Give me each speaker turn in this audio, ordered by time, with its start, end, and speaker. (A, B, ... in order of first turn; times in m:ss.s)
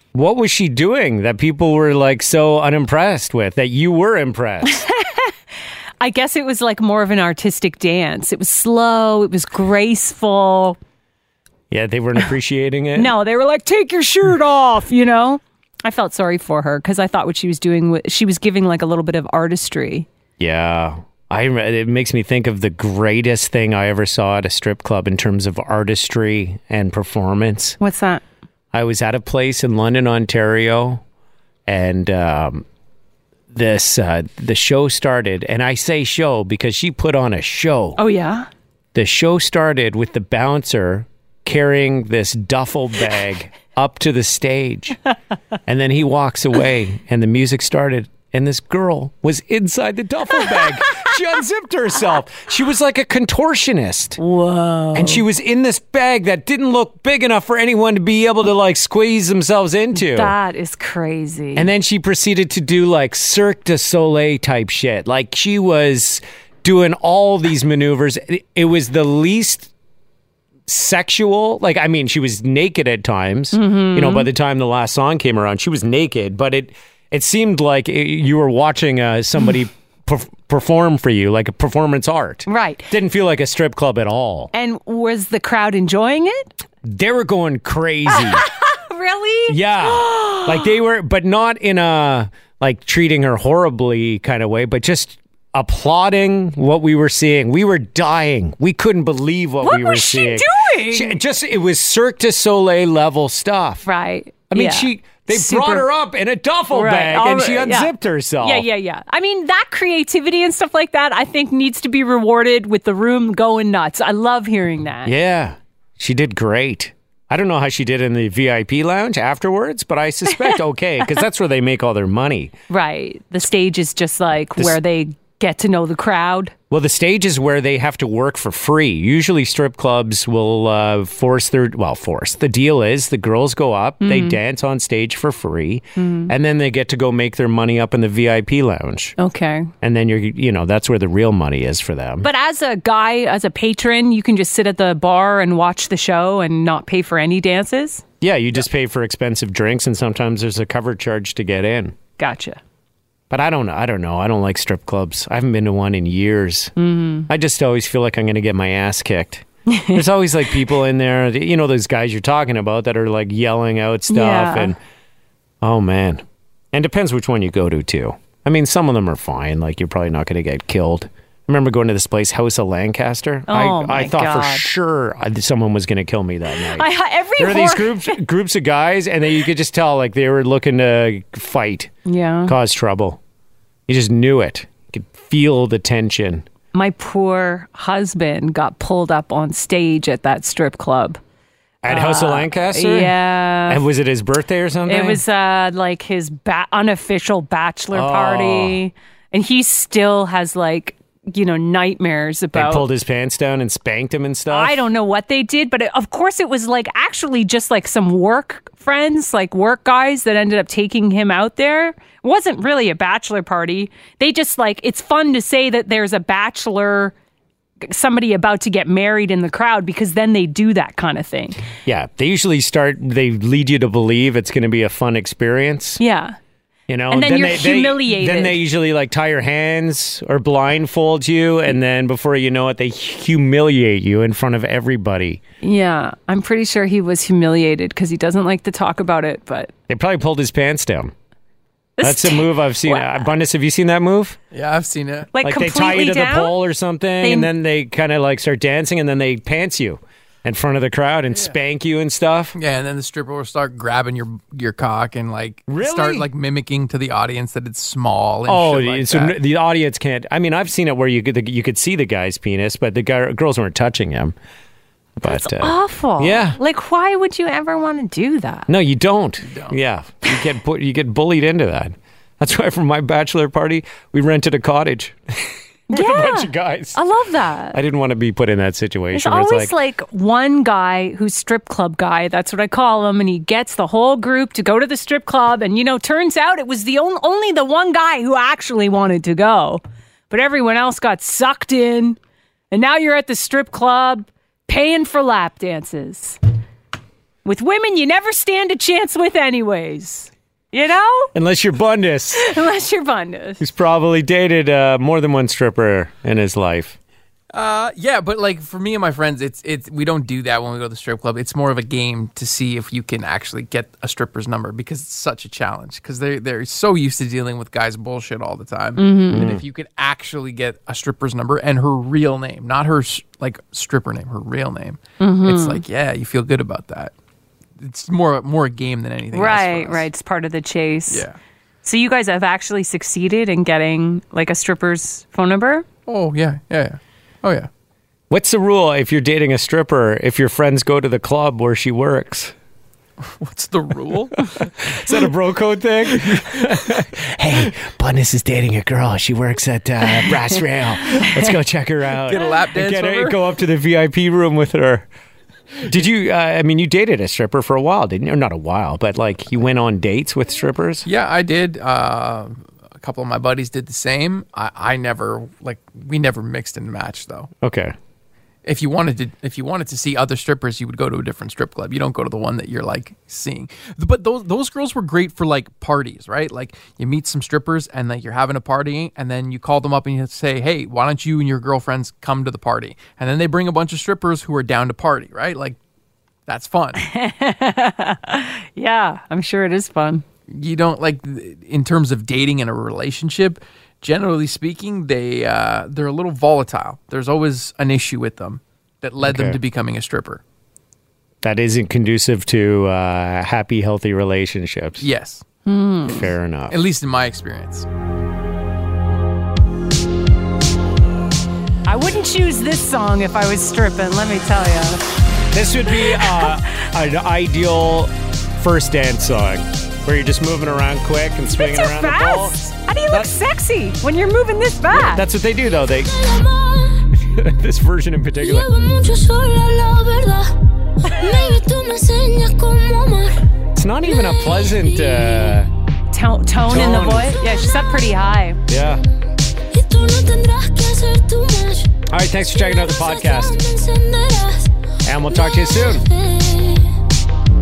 0:00.1-0:04.9 A
0:04.6-0:05.3 B
0:06.0-0:10.8 B
0:11.7-0:13.1 A
0:13.0-0:20.1 B
0:20.4-0:27.8 A
0:27.8-0:28.2 B
0:28.7-0:31.0 A
0:31.7-0:32.6 A
0:33.5-0:38.0 A
0:38.0-0:38.5 B
0:38.9-0:45.0 A
0:45.7-0:54.2 A
0:54.2-0:55.2 B
0:54.9-1:00.3 A
0:59.9-1:01.7 B
1:01.6-1:09.7 A
1:10.7-1:24.5 A
1:13.5-1:14.3 B
1:22.5-1:22.9 B
1:24.5-1:26.5 B
1:26.8-1:28.5 A
1:28.1-1:30.7 B
1:29.5-1:43.9 A
1:39.6-1:41.2 B
1:43.8-1:45.9 B
1:44.5-1:48.7 A
1:46.7-1:55.1 B
1:55.0-2:02.6 A
2:02.7-2:06.5 B
2:06.7-2:19.2 A
2:14.0-2:14.4 B
2:16.0-2:16.3 B
2:19.2-2:19.7 B
2:19.8-2:22.3 A
2:22.2-2:28.0 B
2:28.2-2:32.0 A
2:32.2-2:32.6 B
2:33.3-2:36.7 A
2:36.8-2:37.3 B
2:37.3-2:44.8 A
2:39.7-2:40.0 B
2:44.1-2:44.8 B
2:45.6-3:01.9 A
2:53.5-2:54.7 B
2:56.7-2:58.2 B
3:02.1-3:02.6 B
3:02.4-3:03.2 A
3:03.9-3:06.5 A
3:06.7-3:11.2 B
3:11.8-3:15.2 A
3:11.9-3:13.8 B
3:14.9-3:22.9 B
3:17.9-3:18.8 A
3:22.5-3:24.8 A
3:24.5-3:37.1 B
3:37.8-3:41.6 B
3:41.9-3:46.0 A
3:46.0-3:46.4 B
3:46.9-3:55.4 A
3:47.1-3:48.6 B
3:55.6-3:59.7 B
3:59.9-4:01.1 A
4:02.0-4:03.2 B
4:02.0-4:04.4 A
4:04.5-4:05.3 C
4:05.3-4:06.6 B
4:05.4-4:12.6 A
4:07.2-4:07.5 B
4:12.6-4:19.4 C
4:15.7-4:16.3 A
4:18.5-4:24.4 A
4:25.2-4:26.6 A
4:25.3-4:28.7 B
4:28.7-4:37.0 A
4:29.4-4:29.8 C
4:35.9-4:37.8 B
4:37.7-4:39.7 A
4:39.1-4:52.2 B
4:52.7-4:56.4 B
4:57.4-5:01.3 B
5:01.3-5:02.5 A
5:02.3-5:03.7 B
5:03.6-5:07.0 A
5:07.5-5:27.1 C
5:19.0-5:19.5 B
5:19.3-5:19.6 A
5:25.2-5:25.8 B
5:27.8-5:30.1 C
5:29.3-5:31.3 B
5:31.1-5:31.4 C
5:31.8-5:35.9 B
5:36.1-5:37.7 C
5:38.3-5:42.5 A
5:43.3-5:44.7 C
5:44.6-5:55.1 A
5:51.1-5:51.4 B
5:52.2-5:53.4 C
5:55.8-6:01.1 A
6:01.1-6:07.5 C
6:07.6-6:08.0 A
6:08.6-6:25.8 C
6:26.5-6:27.0 C
6:27.0-6:30.2 B
6:30.5-6:40.4 C
6:39.2-6:39.6 A
6:41.4-6:45.1 A
6:45.0-6:45.4 C
6:45.7-6:46.3 B
6:46.1-6:46.8 A
6:46.7-6:47.9 C
6:51.9-6:55.0 B
6:55.5-7:02.6 A
6:56.1-6:56.5 B
7:01.5-7:05.2 B
7:04.9-7:06.1 A
7:05.7-7:07.1 D
7:07.3-7:08.7 A
7:08.4-7:13.4 D
7:13.8-7:15.7 A
7:14.1-7:15.7 D
7:16.1-7:18.6 B
7:16.7-7:17.4 A
7:17.4-7:17.8 D
7:18.7-7:19.0 A
7:18.7-7:19.0 D
7:19.7-7:27.0 D
7:22.1-7:23.6 A
7:25.0-7:26.1 A